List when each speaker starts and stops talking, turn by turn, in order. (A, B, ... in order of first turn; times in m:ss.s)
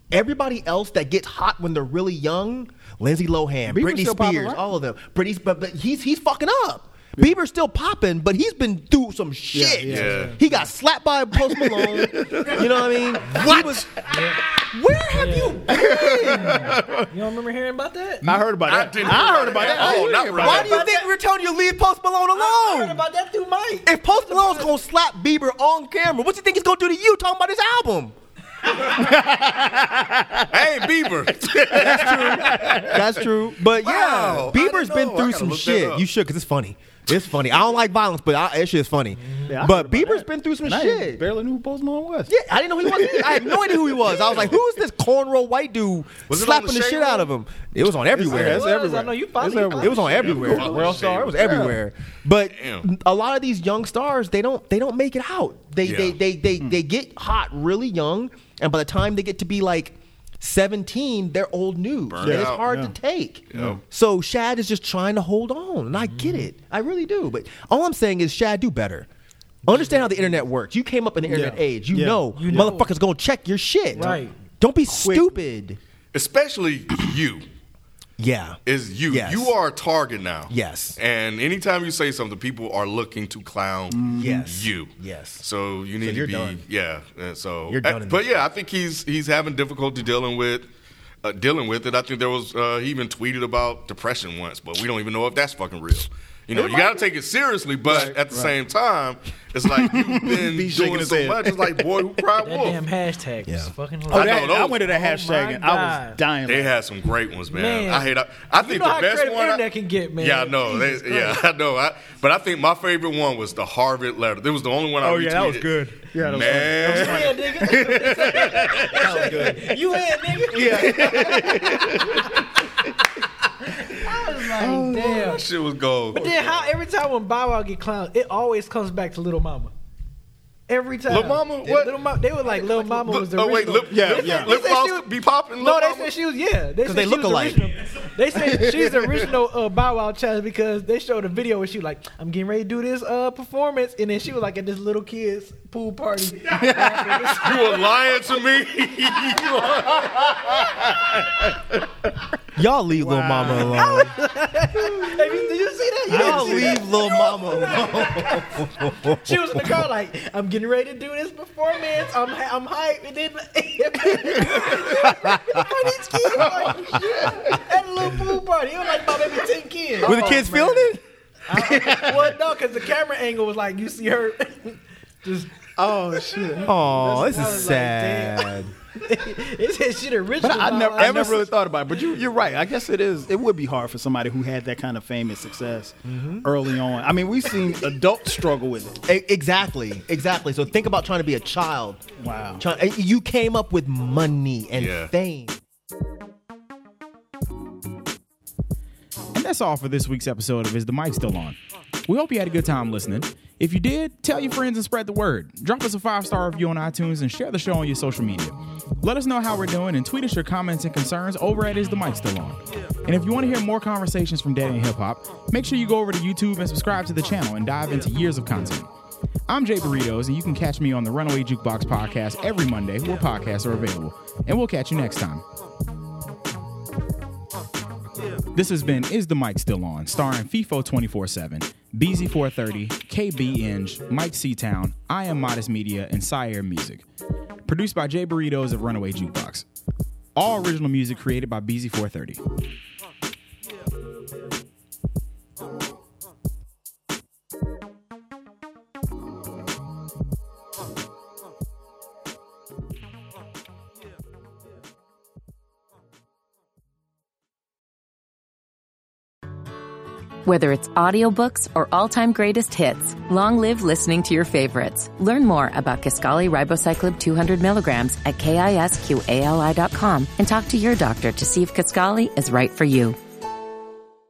0:00.1-0:16.8 A
0:03.7-0:04.7 B
0:09.5-0:10.7 B
0:09.8-0:10.4 C
0:10.0-0:10.4 D
0:11.7-0:12.6 B
0:13.2-0:18.2 D
0:13.4-0:13.7 C
0:15.7-0:17.1 B
0:18.2-0:20.8 C
0:18.2-0:20.8 B
0:19.1-0:21.1 D
0:19.7-0:23.0 A
0:22.3-0:24.8 D
0:23.8-0:28.1 A
0:28.7-0:30.7 B
0:30.5-0:33.2 C
0:31.7-0:33.2 B
0:31.7-0:41.2 A
0:33.8-0:36.0 C
0:39.2-0:39.6 D
0:39.4-0:42.3 B
0:42.3-0:48.7 A
0:42.8-0:44.6 B
0:46.3-0:47.3 C
0:48.1-0:51.8 B
0:48.2-0:51.0 D
0:49.4-1:09.1 A
0:49.8-0:51.8 C
0:52.5-0:52.9 C
0:55.8-0:56.2 C
1:02.1-1:02.6 C
1:02.2-1:03.0 B
1:03.5-1:03.8 C
1:06.1-1:06.5 D
1:09.6-1:15.8 A
1:11.2-1:12.8 B
1:12.3-1:12.9 D
1:13.9-1:14.2 B
1:13.9-1:14.4 D
1:14.8-1:15.4 B
1:16.1-1:17.4 C
1:18.2-1:19.5 A
1:18.6-1:30.7 C
1:20.5-1:21.0 A
1:23.9-1:24.4 B
1:24.1-1:25.4 A
1:26.0-1:26.6 A
1:27.7-1:28.4 A
1:31.2-1:42.8 C
1:36.5-1:37.0 A
1:37.8-1:38.5 B
1:39.6-1:42.2 B
1:42.4-1:46.2 D
1:43.4-1:43.7 A
1:44.1-1:44.8 C
1:44.1-1:46.8 B
1:46.4-1:49.6 C
1:47.5-1:51.4 D
1:50.2-1:57.4 C
1:55.0-1:56.0 A
1:56.1-1:59.4 B
1:56.7-2:02.3 D
1:58.0-1:59.8 A
2:00.5-2:01.9 A
2:00.7-2:02.2 C
2:00.9-2:02.0 B
2:03.6-2:05.5 D
2:04.6-2:05.1 A
2:05.0-2:06.6 C
2:06.1-2:09.7 D
2:10.7-2:27.9 D
2:11.1-2:16.1 C
2:13.9-2:14.5 B
2:16.8-2:17.6 A
2:18.6-2:19.1 B
2:26.5-2:27.3 B
2:27.3-2:31.0 C
2:30.4-2:30.8 B
2:32.6-2:34.2 A
2:33.0-2:34.0 B
2:33.4-2:50.9 D
2:36.1-2:36.9 B
2:36.1-2:39.7 A
2:44.7-2:45.6 A
2:46.4-2:47.6 B
2:46.9-2:47.5 A
2:50.0-2:50.9 B
2:50.0-2:51.0 A
2:51.5-2:52.3 B
2:51.5-3:01.5 D
2:55.8-2:56.8 B
2:56.6-2:58.7 A
3:00.4-3:09.0 B
3:06.0-3:06.5 A
3:09.0-3:12.0 A
3:12.2-3:12.6 B
3:12.6-3:15.6 A
3:14.7-3:15.1 C
3:19.3-3:38.9 E
3:39.5-3:45.4 E
3:48.5-3:57.0 E
3:57.6-3:59.6 E
4:00.3-4:02.4 E
4:20.4-4:33.2 F